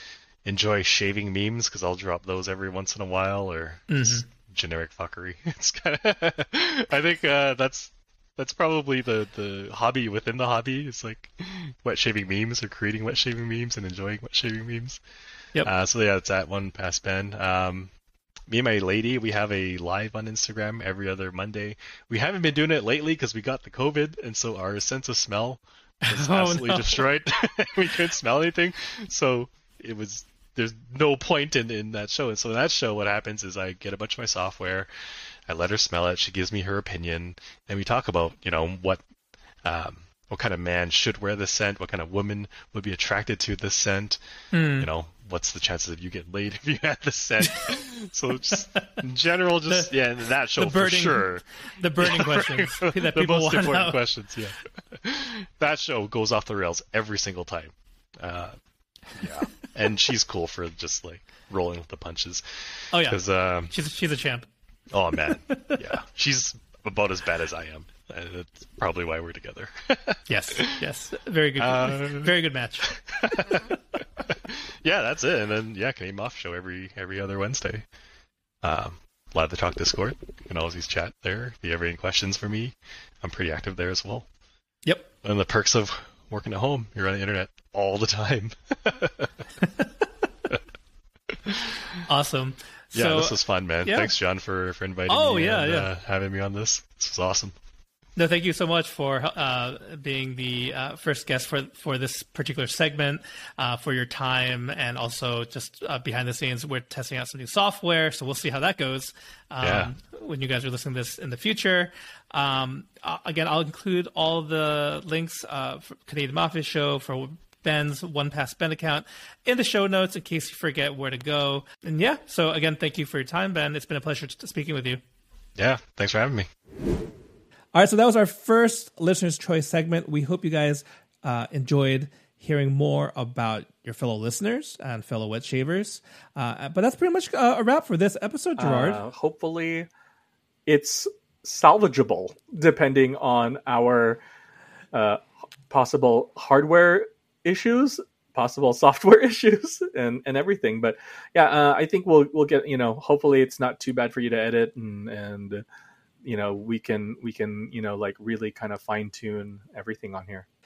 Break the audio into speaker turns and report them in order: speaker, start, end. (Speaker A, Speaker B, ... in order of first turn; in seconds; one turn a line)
Speaker A: 0.5-15.0
Speaker B: 3.9-4.3
Speaker A: 15.6-17.9
Speaker A: 18.5-34.9
Speaker B: 26.1-27.1
Speaker A: 35.5-39.0
Speaker A: 39.6-44.2
Speaker B: 44.5-44.9
Speaker A: 44.8-51.4
Speaker B: 47.4-47.7
Speaker B: 49.7-49.9
Speaker B: 50.6-54.0
Speaker A: 52.0-58.6
Speaker A: 59.1-63.7
Speaker B: 62.9-64.5
Speaker A: 64.9-70.9
Speaker B: 65.1-65.8
Speaker B: 70.3-73.0
Speaker A: 71.6-72.4
Speaker A: 72.9-77.8
Speaker A: 78.6-84.3
Speaker B: 84.8-85.1
Speaker A: 85.2-89.3
Speaker B: 89.6-90.1
Speaker A: 91.5-92.0
Speaker B: 92.1-94.1
Speaker A: 92.9-97.5
Speaker B: 95.1-95.9
Speaker B: 98.2-125.0
Speaker A: 109.6-109.9
Speaker A: 125.6-126.5
Speaker B: 127.7-139.0
Speaker C: 138.6-139.9
Speaker C: 140.7-144.2
Speaker C: 144.9-155.7
Speaker C: 156.2-160.5